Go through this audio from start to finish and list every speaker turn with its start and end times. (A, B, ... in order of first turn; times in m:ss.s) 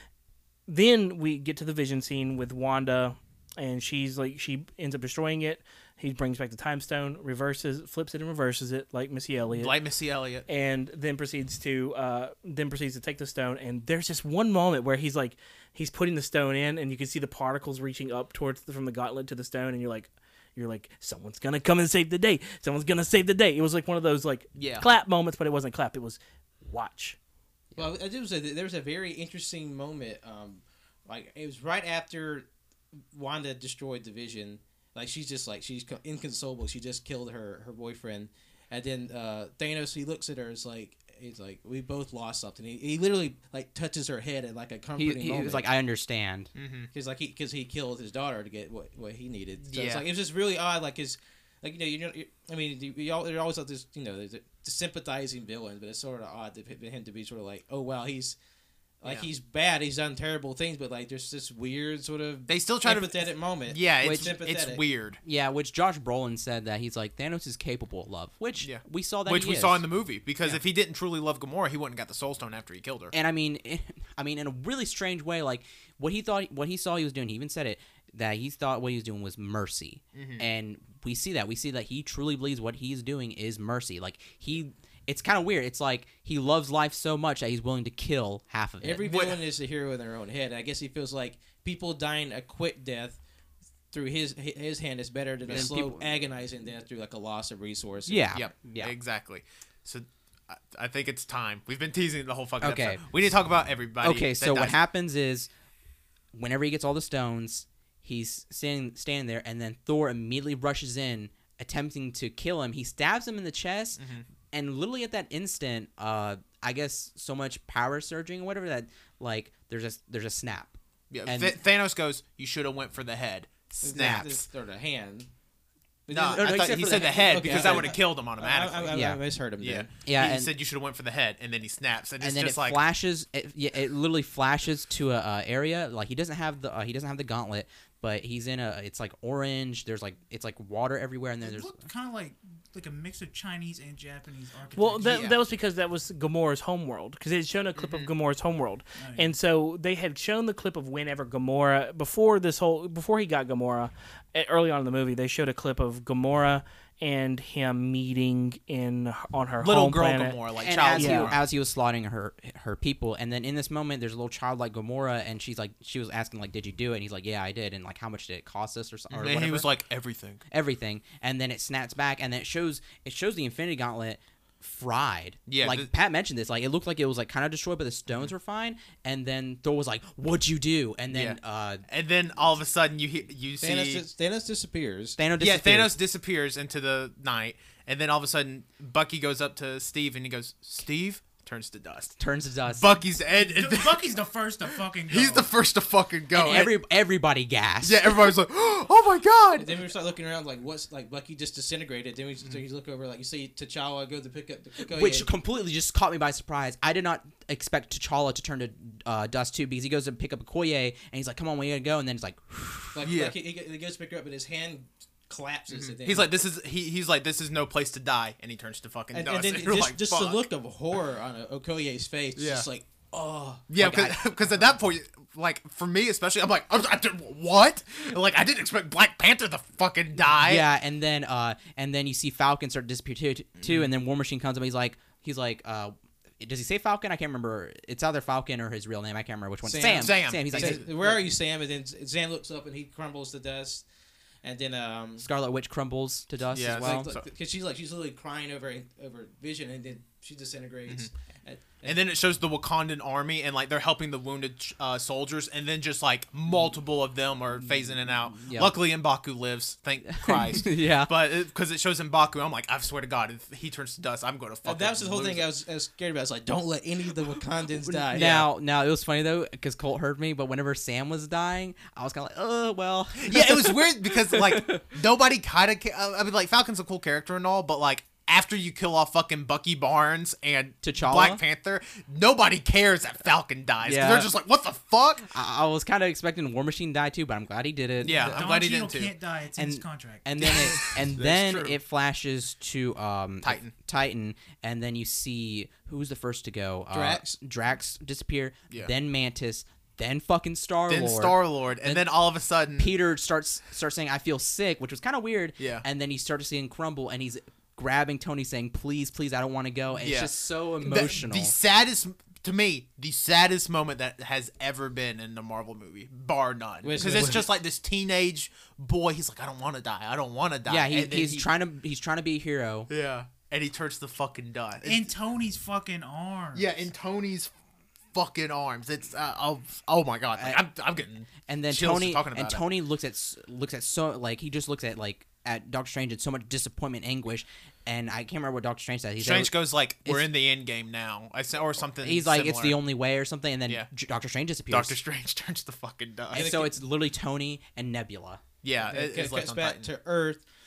0:00.7-0:09.7 A
0:09.5-0:10.4 B
0:10.5-0:27.2 A
0:24.5-0:24.8 B
0:27.8-0:32.5 C
0:33.1-0:45.7 C
0:45.0-0:46.5 D
0:46.6-0:46.9 B
0:46.9-0:58.4 C
0:49.6-0:50.0 B
0:59.0-1:04.8 C
1:02.5-1:05.2 B
1:04.0-1:04.4 D
1:05.2-1:09.8 D
1:08.6-1:13.1 B
1:13.1-1:29.1 D
1:20.1-1:20.4 B
1:28.8-1:33.2 C
1:29.0-1:29.4 B
1:33.9-1:38.4 C
1:35.5-1:35.7 B
1:35.5-1:36.1 D
1:38.0-1:38.9 D
1:38.3-1:44.7 B
1:42.6-1:43.0 D
1:44.0-1:45.5 D
1:46.3-1:54.0 D
1:54.0-1:54.2 B
1:54.5-2:01.6 D
2:01.1-2:04.3 B
2:03.8-2:05.3 C
2:03.9-2:04.3 D
2:06.1-2:09.9 C
2:06.1-2:09.0 B
2:06.2-2:08.0 D
2:08.9-2:09.2 D
2:09.6-2:12.8 B
2:10.0-2:10.5 D
2:12.2-2:21.8 D
2:21.4-2:25.3 E
2:24.7-2:40.4 A
2:25.0-2:25.4 B
2:27.8-2:28.1 B
2:29.0-2:29.3 E
2:39.6-2:41.4 B
2:40.6-2:49.7 D
2:40.9-2:41.3 A
2:49.1-2:50.4 B
2:50.5-3:01.8 D
2:55.5-2:55.9 B
3:01.1-3:04.0 B
3:03.6-3:05.2 C
3:05.2-3:05.9 D
3:05.4-3:14.1 B
3:12.2-3:12.8 D
3:13.4-3:15.5 E
3:15.1-3:16.7 B
3:16.3-3:18.3 D
3:17.8-3:19.7 B
3:19.6-3:25.3 C
3:24.8-3:33.1 D
3:32.9-3:36.3 C
3:33.0-3:33.3 B
3:35.7-3:40.4 B
3:39.1-3:43.7 C
3:42.4-3:42.7 B
3:43.7-3:50.6 B
3:43.8-3:44.2 D
3:50.4-4:01.1 D
3:53.6-3:53.9 B
3:59.6-4:03.8 C
3:59.9-4:00.9 B
4:04.4-4:05.2 C
4:05.2-4:07.1 D
4:06.5-4:07.2 B
4:06.7-4:12.0 C
4:11.8-4:25.4 B
4:17.7-4:18.8 D
4:20.1-4:21.1 D
4:24.6-4:28.5 C
4:27.8-4:34.8 D
4:33.2-4:45.2 B
4:40.8-4:41.4 D
4:43.8-4:44.3 D
4:45.2-4:48.4 D
4:48.0-4:49.1 B
4:48.1-4:50.8 E
4:49.6-5:02.0 D
4:50.4-4:51.8 B
4:53.4-4:53.7 B
4:56.9-4:57.3 C
5:00.9-5:02.9 B
5:02.8-5:11.5 D
5:05.6-5:05.8 B
5:10.0-5:21.4 B
5:16.8-5:17.5 C
5:20.7-5:22.9 D
5:22.9-5:25.1 B
5:24.8-5:26.8 E
5:26.5-5:27.5 B
5:28.1-5:32.6 B
5:30.4-5:30.6 D
5:31.4-5:39.5 D
5:39.2-5:42.8 B
5:42.0-5:45.0 D
5:44.7-5:46.5 B
5:46.3-5:48.4 D
5:46.3-5:46.7 C
5:48.6-5:49.9 B
5:48.8-5:50.4 C